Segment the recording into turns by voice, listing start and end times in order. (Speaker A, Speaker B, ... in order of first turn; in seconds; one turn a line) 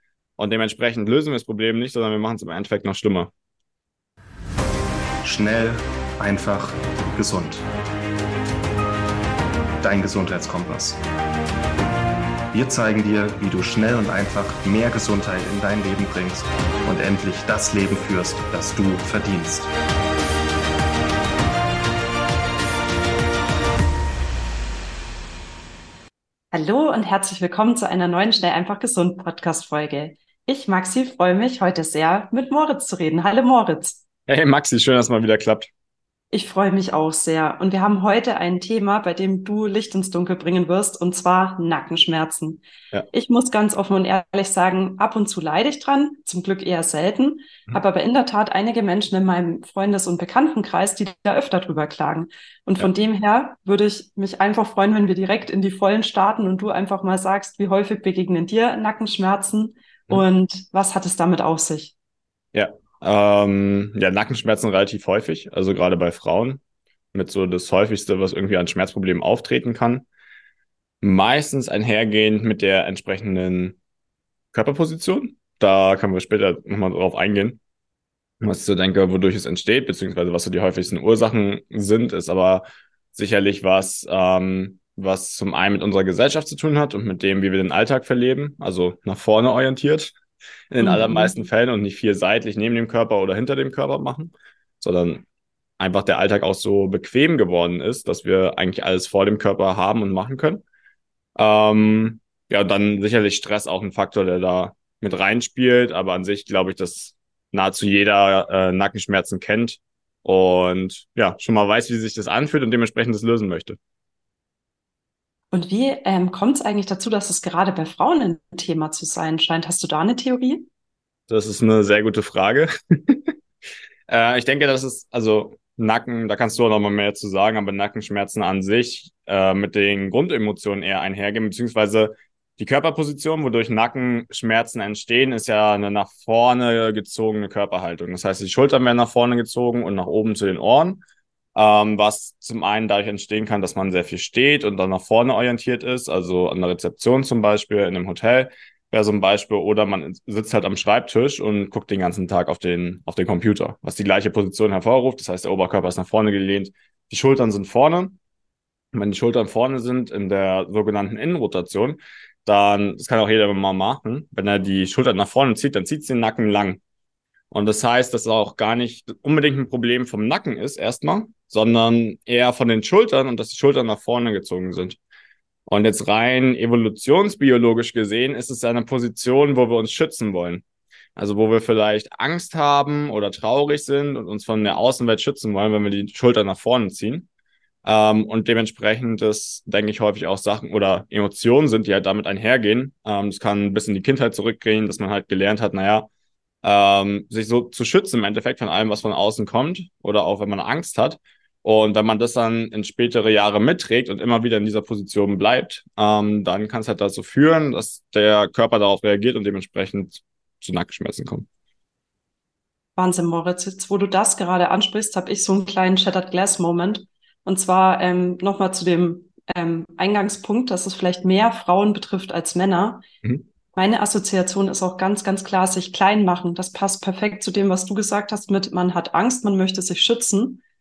Speaker A: 0.4-3.3
Speaker B: 5.2-7.6
Speaker B: 9.8-11.0
Speaker B: 12.5-19.7
Speaker C: 26.5-34.0
Speaker A: 34.3-35.7
Speaker C: 36.3-62.0
Speaker A: 62.5-66.6
Speaker A: 67.1-70.1
Speaker A: 71.0-73.8
Speaker A: 74.5-77.6
Speaker A: 78.4-90.2
Speaker A: 90.7-95.2
Speaker C: 90.8-91.4
Speaker A: 95.8-100.6
Speaker A: 101.4-113.8
Speaker C: 115.5-120.7
Speaker A: 121.3-123.3
Speaker A: 124.1-141.0
Speaker A: 141.6-158.2
Speaker A: 158.9-166.8
Speaker A: 167.5-175.0
Speaker A: 175.7-180.6
Speaker A: 181.2-187.3
Speaker A: 187.8-196.1
Speaker A: 196.6-211.5
Speaker C: 213.0-223.1
Speaker C: 223.8-230.6